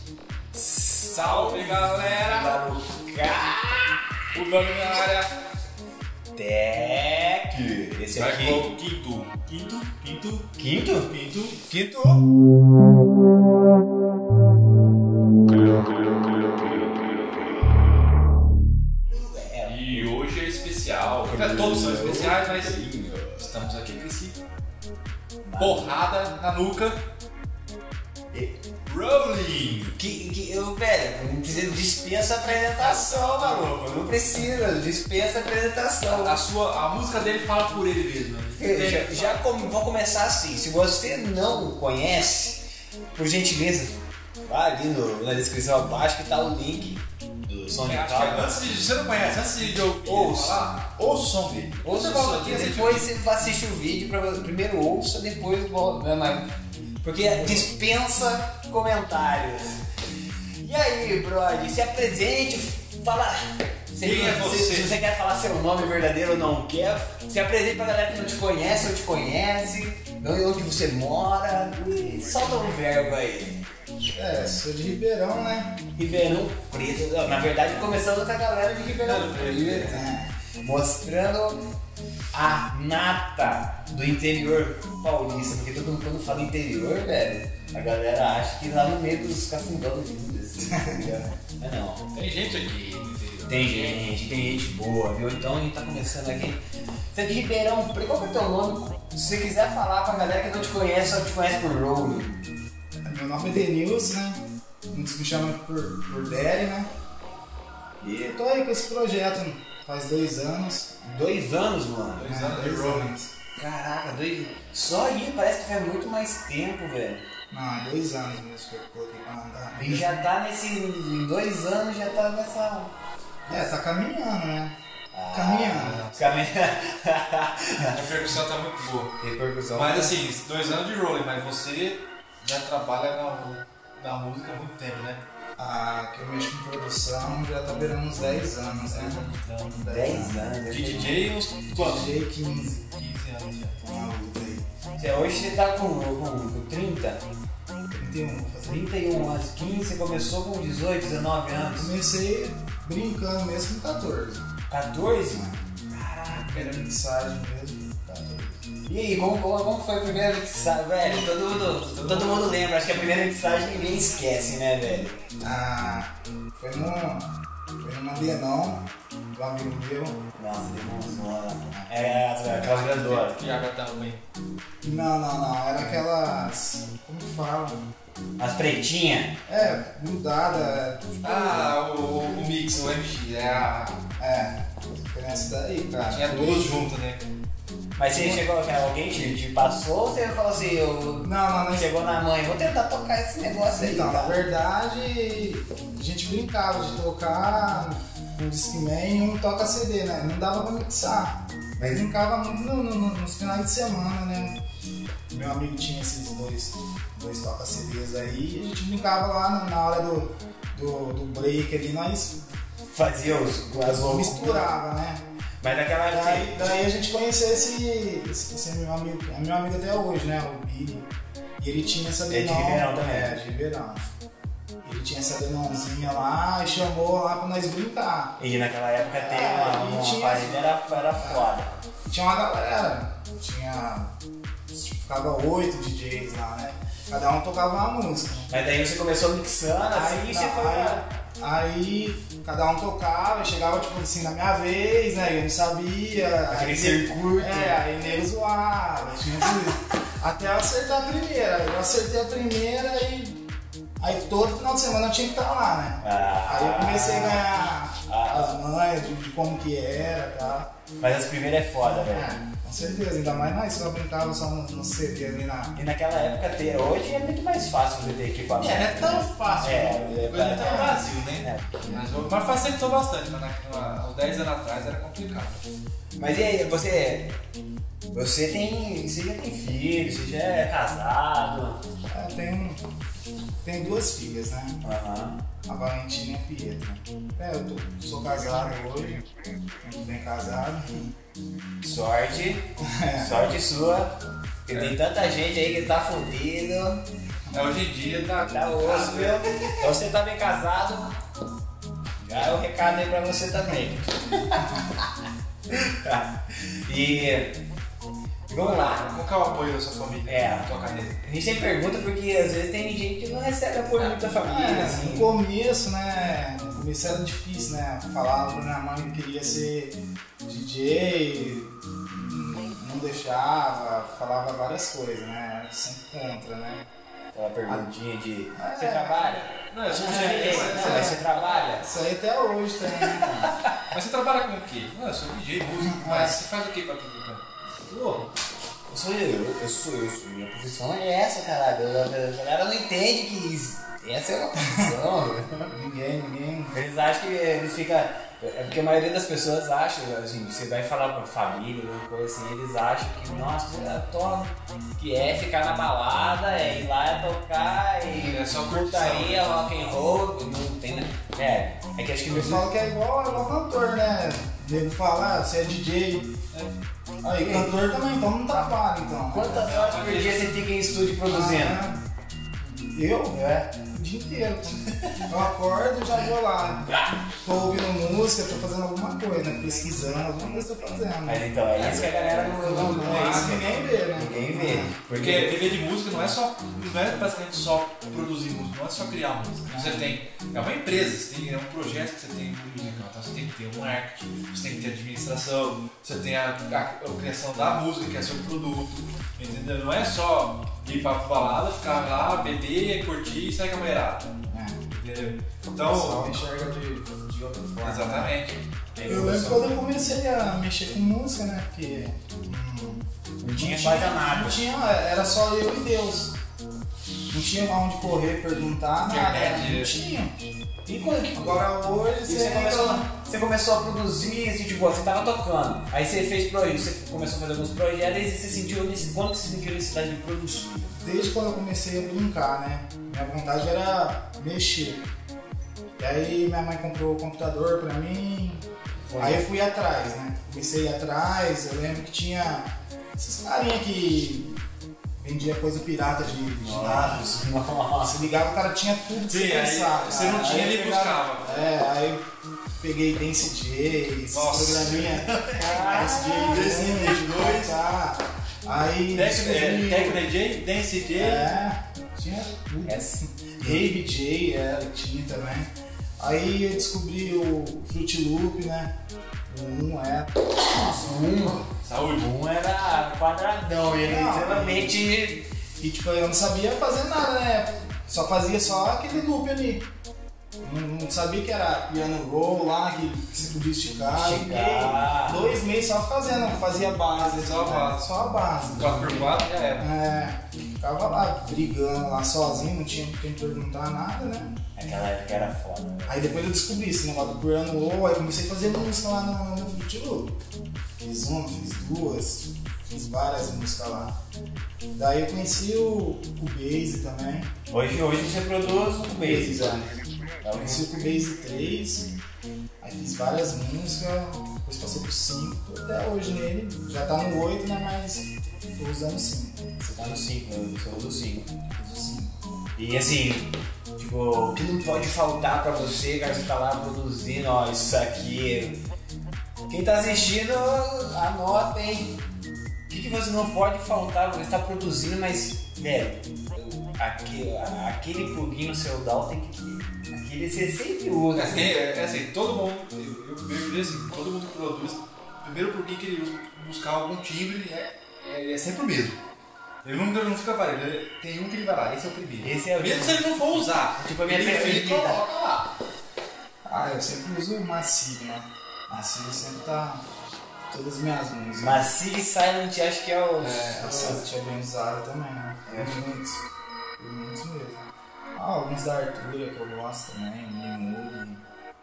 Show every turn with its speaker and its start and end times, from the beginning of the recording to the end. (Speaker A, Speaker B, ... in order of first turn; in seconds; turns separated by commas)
Speaker A: 0.5-4.0, Speaker B: 1.1-2.6, Speaker B: 4.3-5.3, Speaker A: 6.3-8.7, Speaker B: 8.2-10.4, Speaker A: 10.4-12.2, Speaker A: 19.1-20.1, Speaker B: 19.7-22.8, Speaker A: 21.2-23.5, Speaker B: 23.4-24.4, Speaker A: 25.4-25.9, Speaker B: 25.6-27.0, Speaker B: 28.9-30.0, Speaker A: 30.0-36.4, Speaker B: 32.8-33.7, Speaker B: 36.1-39.4, Speaker A: 38.6-48.6, Speaker B: 47.9-53.1, Speaker A: 50.0-50.6, Speaker A: 51.8-56.5, Speaker A: 57.0-59.8, Speaker B: 57.4-57.6, Speaker A: 60.6-73.6, Speaker B: 64.0-65.0, Speaker C: 74.1-75.8, Speaker A: 76.0-80.1, Speaker B: 79.0-80.0, Speaker C: 79.9-80.3, Speaker A: 80.6-81.6, Speaker A: 82.3-92.1, Speaker C: 90.7-91.2, Speaker B: 92.1-94.1, Speaker A: 93.5-96.6, Speaker A: 97.1-102.4, Speaker C: 103.0-106.9, Speaker C: 108.0-111.4, Speaker A: 111.1-112.3, Speaker B: 112.2-113.1, Speaker C: 112.2-113.3, Speaker A: 113.6-117.2, Speaker C: 117.5-120.3, Speaker A: 119.8-122.9, Speaker C: 123.5-124.8, Speaker A: 125.1-128.0, Speaker C: 125.3-126.0, Speaker B: 125.7-126.4, Speaker B: 127.9-129.2, Speaker A: 129.2-130.2, Speaker B: 129.8-135.2, Speaker C: 135.6-140.5, Speaker B: 138.9-139.7, Speaker A: 139.9-141.2, Speaker B: 140.7-142.1, Speaker C: 141.7-142.9, Speaker B: 142.9-143.8, Speaker C: 143.8-144.7, Speaker A: 145.0-147.2, Speaker C: 147.9-148.9, Speaker A: 148.6-151.9, Speaker C: 151.8-154.5, Speaker A: 154.7-156.5, Speaker C: 155.3-155.6, Speaker C: 156.2-158.6, Speaker B: 156.3-156.8, Speaker A: 158.9-165.2, Speaker B: 161.5-162.6, Speaker C: 165.4-167.3, Speaker C: 167.8-170.2, Speaker A: 170.4-173.6, Speaker B: 172.5-174.2, Speaker C: 174.8-177.9, Speaker A: 178.4-179.4, Speaker C: 179.5-181.8, Speaker B: 181.2-184.0, Speaker C: 184.2-186.9, Speaker B: 186.1-187.3, Speaker A: 188.0-194.4, Speaker C: 188.1-188.4, Speaker C: 191.2-191.9, Speaker C: 193.8-204.6, Speaker A: 201.8-202.0, Speaker C: 205.3-212.4, Speaker A: 212.9-214.7, Speaker C: 213.7-215.2, Speaker A: 215.6-216.7, Speaker C: 216.1-224.0, Speaker A: 222.3-223.3, Speaker C: 224.8-228.4, Speaker A: 228.4-231.8, Speaker C: 229.2-231.5, Speaker C: 232.0-234.1, Speaker C: 234.7-238.5, Speaker A: 238.5-241.1, Speaker C: 239.9-253.4, Speaker A: 246.5-247.8, Speaker C: 254.0-260.7, Speaker A: 256.0-258.6, Speaker A: 261.0-262.3, Speaker C: 261.8-265.8, Speaker A: 265.8-272.0, Speaker B: 268.6-275.6, Speaker C: 270.4-271.0, Speaker A: 276.2-277.3, Speaker A: 278.1-281.8, Speaker C: 282.1-282.8, Speaker C: 283.6-284.8, Speaker A: 284.8-285.4, Speaker C: 285.7-289.2, Speaker C: 289.8-291.1, Speaker A: 291.8-297.0, Speaker C: 292.8-293.5, Speaker B: 294.7-295.0, Speaker B: 297.5-299.9, Speaker A: 298.5-301.1, Speaker A: 302.2-305.1, Speaker B: 302.3-302.6, Speaker A: 305.7-307.6, Speaker A: 308.5-309.1, Speaker B: 308.6-311.2, Speaker A: 310.3-310.7, Speaker A: 311.2-315.3, Speaker C: 314.3-326.8, Speaker A: 327.3-331.9, Speaker C: 328.6-329.4, Speaker B: 329.6-331.4, Speaker C: 330.0-331.2, Speaker C: 331.8-333.6, Speaker A: 333.1-333.8, Speaker B: 333.9-338.3, Speaker C: 335.9-336.4, Speaker A: 338.9-345.7, Speaker C: 345.7-346.8, Speaker A: 346.7-362.7, Speaker B: 358.1-359.5, Speaker C: 362.3-366.3, Speaker C: 367.2-369.7, Speaker A: 367.4-367.7, Speaker A: 369.3-371.8, Speaker B: 369.6-370.5, Speaker C: 371.3-372.0, Speaker C: 372.6-376.9, Speaker A: 373.3-373.7, Speaker A: 376.8-377.2, Speaker C: 377.4-384.9, Speaker A: 381.3-385.7, Speaker B: 381.8-383.7, Speaker B: 385.1-404.3, Speaker C: 389.7-390.1, Speaker C: 404.5-404.8, Speaker B: 404.9-406.4, Speaker C: 405.8-408.4, Speaker B: 407.8-408.6, Speaker A: 408.9-409.7, Speaker C: 409.0-416.4, Speaker A: 413.4-414.6, Speaker C: 417.3-420.4, Speaker B: 419.1-419.9, Speaker A: 420.9-421.7, Speaker C: 421.3-423.1, Speaker A: 422.2-431.0, Speaker C: 431.0-435.0, Speaker C: 436.0-438.6, Speaker A: 439.1-439.4, Speaker C: 439.2-444.5, Speaker C: 445.2-447.3, Speaker A: 446.6-448.2, Speaker C: 448.0-452.2, Speaker B: 449.3-451.6, Speaker C: 452.8-460.2, Speaker B: 454.3-455.5, Speaker A: 455.5-456.7, Speaker B: 456.5-457.8, Speaker B: 459.1-461.5, Speaker C: 461.2-468.9, Speaker A: 462.9-463.9, Speaker C: 469.5-471.2, Speaker A: 470.6-475.5, Speaker B: 471.7-472.3, Speaker C: 474.0-475.0, Speaker C: 475.8-479.9, Speaker C: 480.6-494.5, Speaker A: 484.1-485.5, Speaker B: 487.1-488.1, Speaker B: 488.8-489.9, Speaker A: 494.8-496.4, Speaker C: 496.1-500.4, Speaker C: 501.0-504.1, Speaker C: 504.9-507.5, Speaker A: 507.7-509.9, Speaker C: 509.1-509.9, Speaker A: 510.4-510.9, Speaker C: 510.5-512.1, Speaker C: 512.8-519.7, Speaker A: 519.8-521.5, Speaker C: 521.7-522.4, Speaker A: 522.8-528.8, Speaker A: 529.7-532.2, Speaker A: 532.9-541.8, Speaker B: 541.4-549.2, Speaker B: 549.8-555.7, Speaker A: 552.4-553.2, Speaker A: 554.0-555.3, Speaker C: 556.7-560.0, Speaker C: 560.7-561.8, Speaker A: 561.6-564.2, Speaker B: 563.4-563.9, Speaker C: 563.8-566.5, Speaker A: 565.7-566.0, Speaker C: 567.0-571.4